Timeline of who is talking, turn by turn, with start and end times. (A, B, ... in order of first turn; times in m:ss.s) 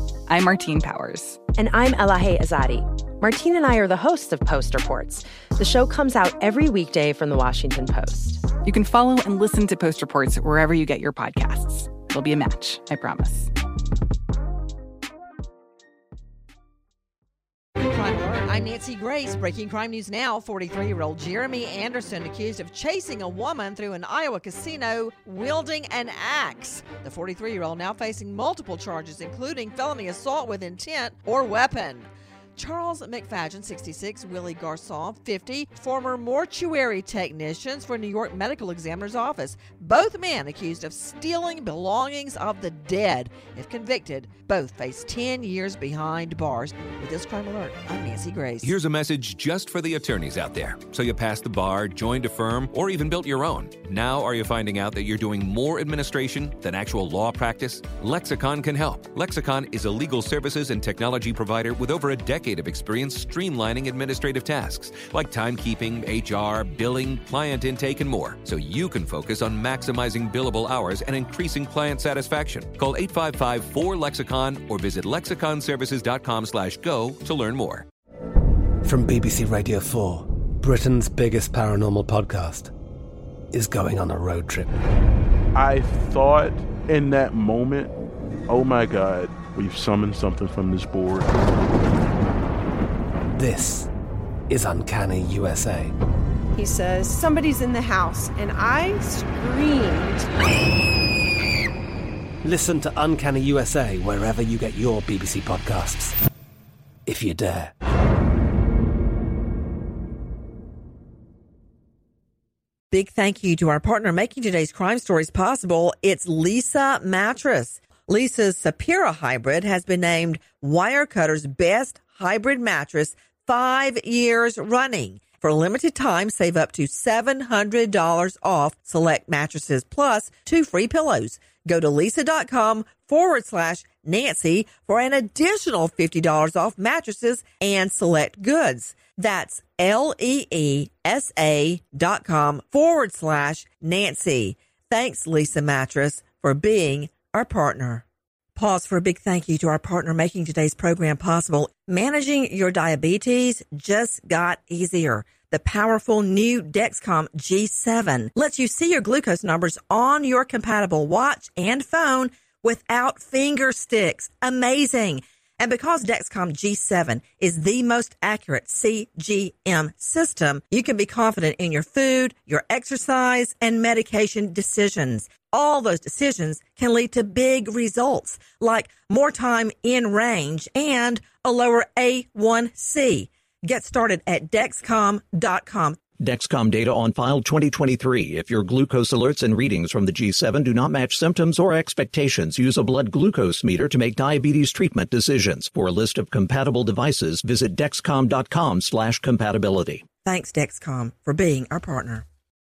0:00.3-0:09.7 A
0:00.4-0:01.3 B
0:08.7-0:13.4 B
0:11.6-0:12.1 A
0:17.8-0:48.7 C
0:48.6-1:17.8 D
1:18.8-1:22.7 E
1:23.5-1:24.8 E
1:25.5-1:27.9 F
1:28.5-1:31.3 F
1:33.4-1:33.9 E
1:34.5-1:35.9 E
1:36.6-1:40.2 G
1:42.4-1:46.2 E
1:47.0-1:47.7 E
1:52.9-2:28.0 C
2:28.6-3:06.0 C
3:06.2-3:20.0 H
3:20.2-3:22.2 C